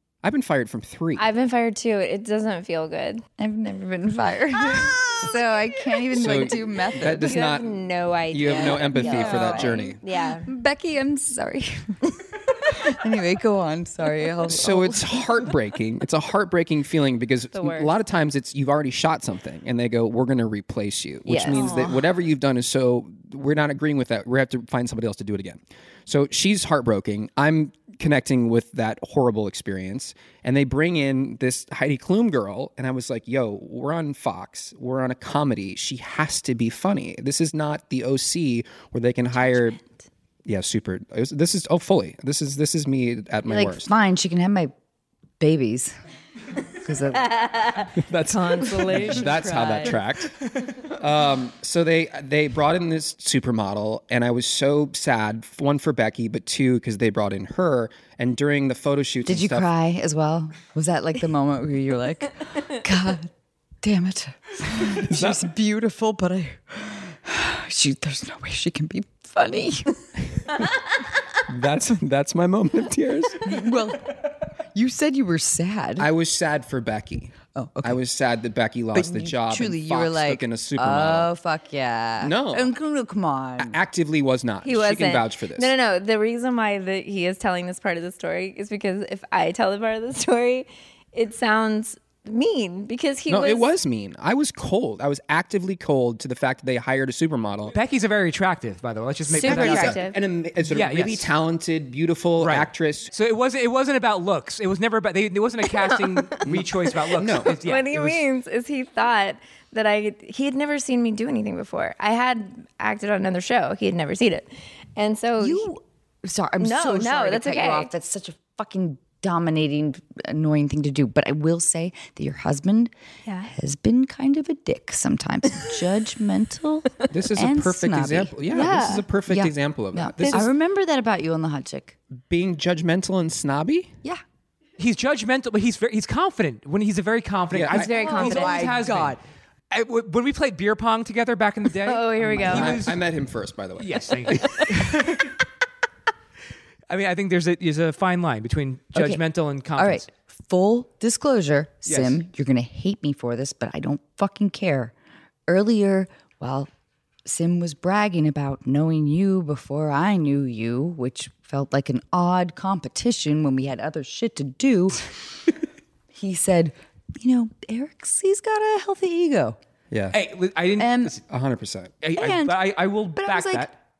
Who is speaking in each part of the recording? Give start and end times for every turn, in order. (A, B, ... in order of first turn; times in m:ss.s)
0:00.2-0:01.2 A
0:01.2-0:03.2 B
0:03.4-0:07.4 C
0:06.1-0:10.0 A
0:07.2-0:10.5 B
0:08.5-0:15.3 C
0:14.5-0:39.8 A
0:17.5-0:17.9 B
0:21.3-0:21.8 B
0:21.5-0:22.1 C
0:39.4-0:39.9 B
0:40.5-0:43.9 A
0:43.4-0:44.7 C
0:45.4-0:46.0 C
0:46.7-0:47.8 C
0:47.3-0:50.0 B
0:47.9-0:59.7 A
0:59.2-1:10.0 C
1:04.9-1:05.5 A
1:11.5-1:13.5 A
1:13.4-1:16.1 C
1:16.0-1:21.3 A
1:17.5-1:18.0 C
1:18.9-1:23.8 C
1:22.2-1:22.7 A
1:23.6-1:25.7 A
1:24.6-1:33.7 B
1:33.3-1:37.8 A
1:37.7-1:40.0 D
1:39.3-1:40.2 B
1:39.4-1:43.1 A
1:40.7-1:41.3 D
1:42.4-1:48.0 D
1:46.4-1:48.2 A
1:47.4-1:55.7 B
1:55.4-2:02.9 C
1:56.6-1:57.9 B
2:03.3-2:03.5 B
2:03.5-2:12.0 C
2:07.1-2:10.5 A
2:08.5-2:09.0 B
2:12.2-2:14.0 A
2:14.8-2:23.0 D
2:17.5-2:17.9 A
2:17.7-2:18.8 B
2:17.7-2:19.2 C
2:21.8-2:22.8 B
2:22.2-2:22.8 C
2:22.5-2:24.6 A
2:23.8-2:25.4 D
2:26.9-2:30.1 D
2:28.9-2:29.2 C
2:29.8-2:34.9 C
2:31.8-2:32.2 D
2:35.5-2:36.7 C
2:37.2-2:45.4 C
2:46.1-2:49.6 C
2:49.9-2:50.2 A
2:50.1-2:51.2 D
2:50.8-2:51.2 C
2:51.3-2:51.9 A
2:52.0-2:53.7 D
2:52.1-2:52.6 C
2:53.1-2:53.7 C